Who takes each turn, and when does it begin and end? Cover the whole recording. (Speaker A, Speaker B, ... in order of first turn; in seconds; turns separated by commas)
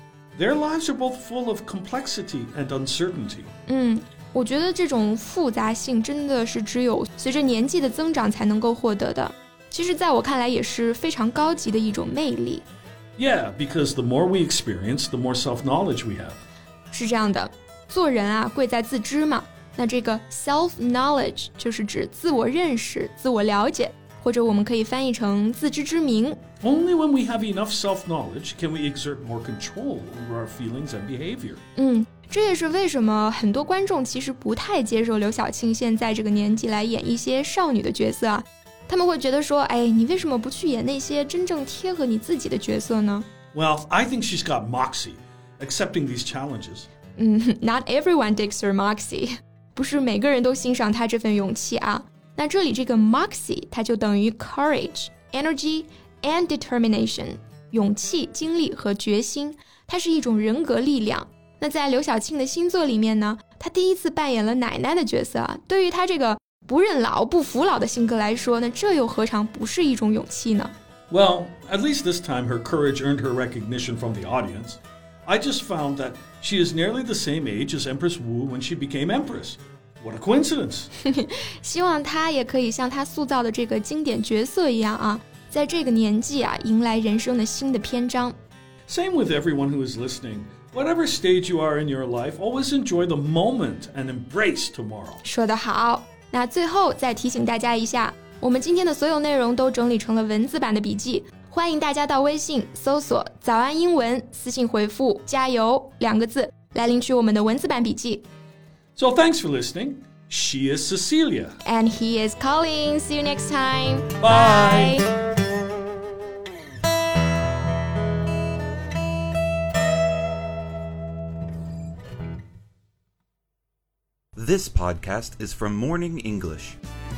Speaker A: 0.3-3.5, Speaker B: 3.7-12.6, Speaker A: 13.2-16.4, Speaker B: 16.9-26.4, Speaker A: 26.6-31.6, Speaker B: 31.8-43.2, Speaker A: 43.5-46.9, Speaker B: 47.2-70.7, Speaker A: 71.1-80.9, Speaker B: 81.0-88.3, Speaker A: 88.9-95.2, Speaker B: 95.2-108.2, Speaker A: 109.0-111.6, Speaker B: 111.6-115.1, Speaker A: 114.2-115.1, Speaker C: 124.3-126.8